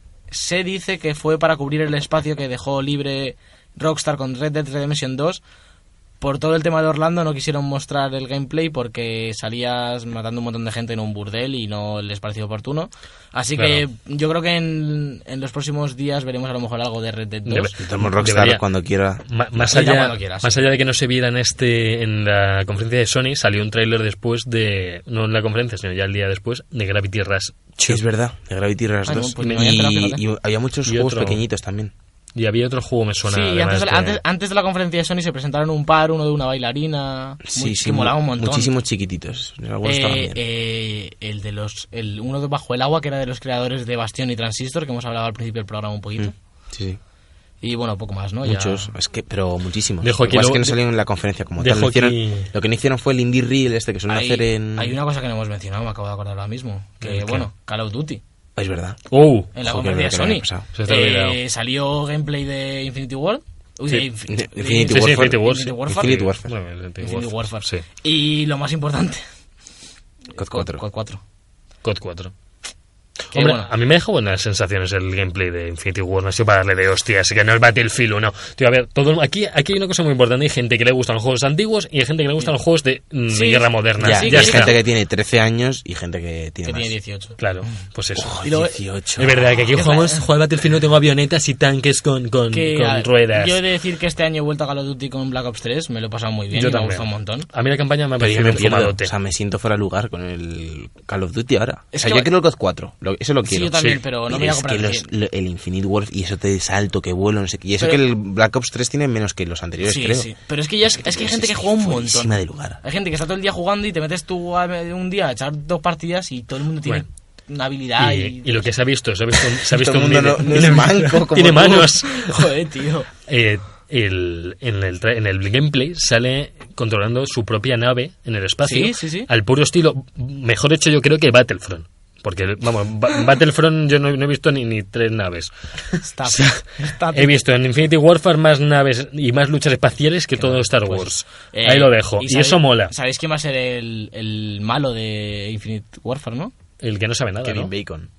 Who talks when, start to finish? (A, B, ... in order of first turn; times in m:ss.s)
0:00.3-0:05.4 A
0:06.2-0:17.8 A
0:17.5-0:18.6 B
0:17.8-0:19.7 C
0:19.3-0:28.0 B
0:19.7-0:20.6 A
0:27.8-0:31.9 C
0:29.1-0:30.2 A
0:30.9-0:31.4 B
0:32.4-0:34.2 B
0:33.3-0:38.7 A
0:37.4-0:40.4 C
0:39.8-0:46.4 A
0:46.2-0:47.0 C
0:47.6-0:48.9 A
0:48.4-0:55.0 C
0:50.0-0:50.8 B
0:51.6-0:52.5 B
0:54.1-0:58.2 A
0:57.0-0:57.5 B
0:58.6-0:59.0 C
0:59.1-0:59.5 B
0:59.6-1:06.3 A
0:59.6-1:00.7 C
1:00.7-1:01.4 B
1:04.3-1:06.5 C
1:04.9-1:07.8 B
1:07.0-1:09.2 A
1:10.3-1:11.2 A
1:10.4-1:10.8 C
1:11.8-1:12.3 B
1:13.3-1:13.7 A
1:13.3-1:24.8 B
1:23.3-1:24.8 A
1:24.0-1:26.9 C
1:26.6-1:27.4 A
1:27.4-1:28.4 B
1:28.2-1:29.5 C
1:28.4-1:28.8 A
1:29.2-1:33.6 B
1:29.7-1:30.2 A
1:32.5-1:37.5 A
1:36.5-1:39.1 B
1:38.2-1:43.7 C
1:41.9-1:42.3 A
1:43.4-1:45.1 A
1:44.3-1:50.3 C
1:49.8-1:58.7 A
1:50.9-1:52.8 C
1:58.0-2:02.5 B
1:59.7-2:02.0 C
2:02.2-2:03.1 A
2:03.3-2:15.5 B
2:08.6-2:09.3 A
2:16.0-2:17.4 A
2:16.2-2:22.9 B
2:20.4-2:26.5 A
2:26.8-2:27.7 B
2:27.4-2:28.1 C